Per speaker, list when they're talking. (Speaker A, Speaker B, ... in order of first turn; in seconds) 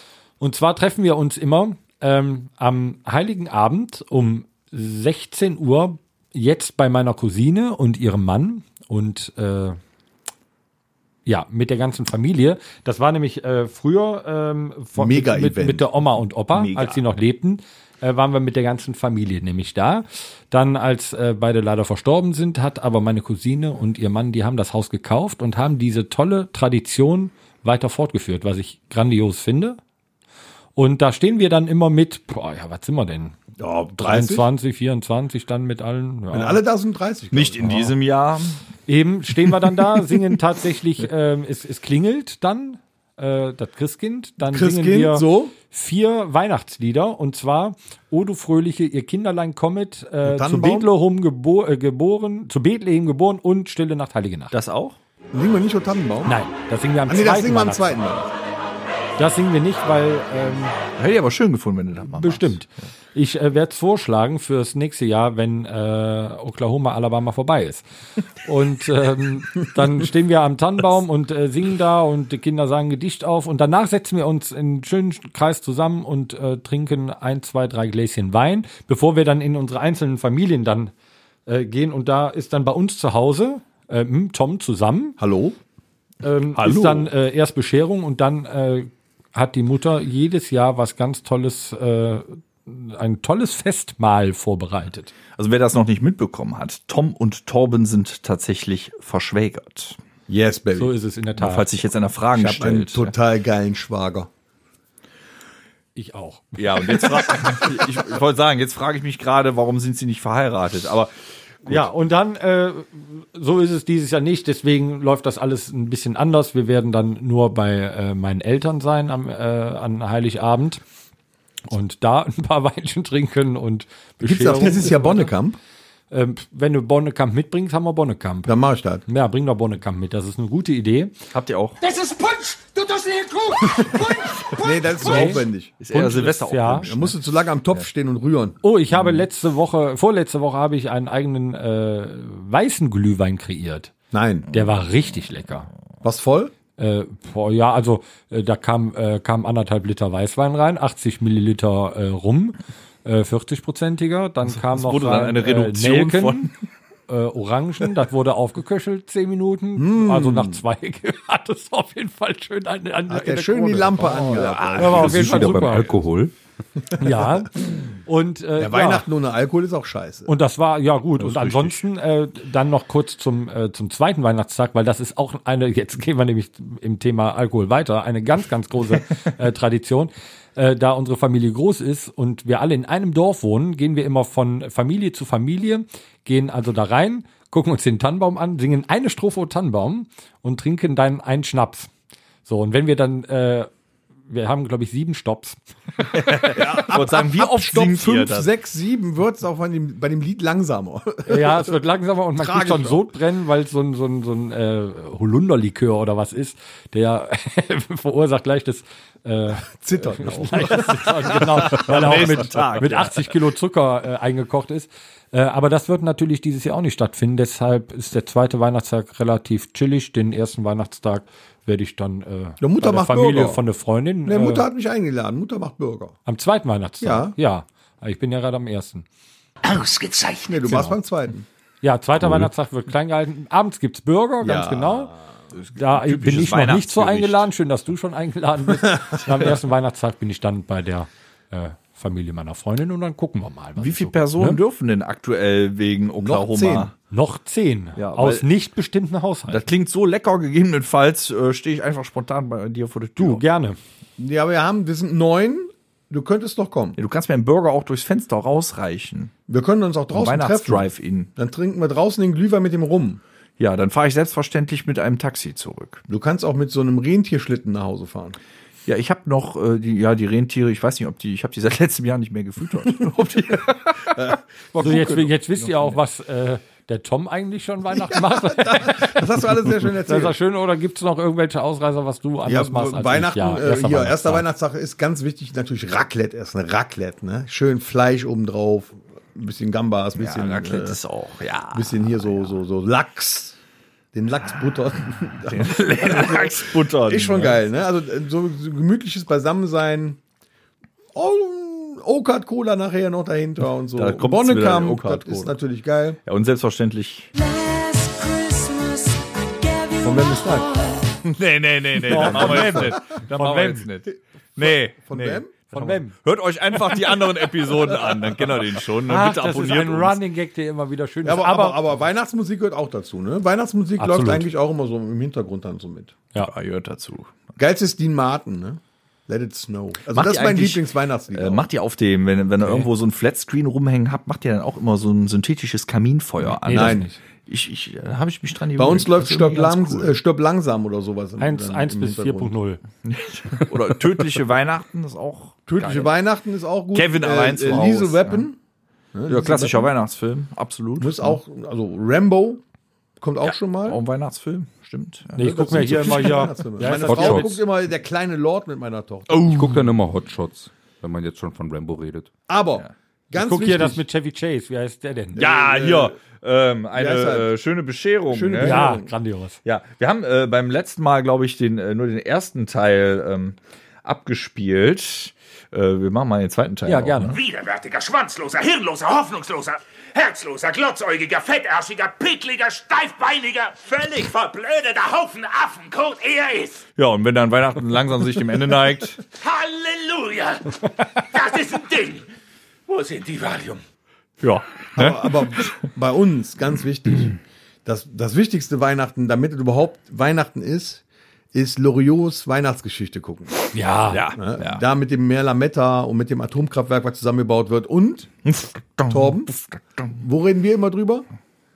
Speaker A: 0.4-9.8, 11.3-29.8, 30.8-33.4, 34.0-36.6, 38.9-54.6, 56.2-58.0, 59.2-60.8, 62.0-67.8, 68.5-80.9, 81.5-85.2, 86.2-95.1, 100.8-101.7, 106.0-107.6, 111.7-120.8, 121.7-125.3, 126.1-128.5, 129.1-131.1, 135.0-136.9, 138.6-143.9, 144.5-145.7, 146.8-156.5, 157.1-166.0, 167.0-169.1, 170.3-191.9, 192.5-193.7, 194.3-195.6, 201.3-224.7, 226.3-229.1, 231.8-235.1, 235.8-244.6, 247.1-249.7, 253.2-253.8, 274.8-279.2, 280.1-284.4, 312.1-313.9, 315.7-316.1, 319.1-321.8, 324.0-324.5, 332.6-332.9, 336.7-337.2, 341.4-342.8, 355.4-357.6, 363.3-365.4, 368.6-369.6, 376.9-377.4, 403.7-404.2
Speaker B: 15.0-15.9, 33.6-34.5, 36.3-37.9, 44.4-45.5, 50.2-50.9, 55.3-56.4, 57.1-58.3, 85.2-85.6, 100.3-100.9, 102.3-104.3, 124.2-125.6, 128.5-129.0, 134.6-135.7, 136.8-138.6, 144.1-144.5, 146.0-146.5, 159.8-160.6, 163.1-165.7, 166.9-167.3, 168.6-170.3, 196.4-201.7, 202.4-203.0, 209.8-212.1, 222.6-223.6, 224.3-226.2, 227.0-227.3, 230.4-231.5, 234.4-235.2, 246.2-246.9, 254.2-257.0, 259.5-263.2, 266.1-268.4, 274.1-275.3, 277.9-280.4, 282.5-291.0, 291.7-293.6, 294.1-300.2, 301.1-306.2, 310.0-310.7, 312.1-312.9, 314.6-315.5, 321.2-326.2, 327.6-331.6, 336.7-337.1, 338.8-342.5, 345.7-348.6, 349.1-349.9, 351.0-352.6, 353.2-354.0, 355.4-359.7, 362.5-364.0, 365.4-366.1, 366.9-367.5, 368.3-369.1, 395.0-401.0, 401.5-403.6, 404.3-408.3, 409.1-409.5, 410.1-411.3
Speaker C: 16.5-17.0, 37.3-38.6, 54.5-55.0, 61.0-62.6, 86.6-87.1, 95.4-100.0, 101.4-103.1, 106.6-111.1, 131.3-131.8, 135.8-137.1, 154.5-156.5, 164.6-164.8, 196.1-198.5, 211.7-213.3, 235.6-237.5, 243.8-246.9, 248.0-248.4, 249.5-253.4, 257.0-259.3, 260.1-261.3, 263.6-266.0, 268.9-274.2, 274.8-275.1, 275.6-275.9, 290.2-292.5, 295.5-297.6, 304.0-305.6, 306.2-307.3, 311.3-320.2, 326.4-327.3, 330.1-340.2, 343.1-346.1, 346.9-348.5, 349.3-351.4, 353.4-356.4, 359.3-359.8, 365.4-369.0, 369.6-377.4, 387.0-389.2, 394.4-395.7, 404.1-404.8, 408.4-410.2
Speaker D: 131.8-134.9, 229.6-230.9, 307.3-311.1
Speaker E: 164.7-166.3, 232.2-232.5, 356.9-357.6, 359.5-362.3
Speaker F: 377.3-386.8, 389.3-392.3, 392.9-393.8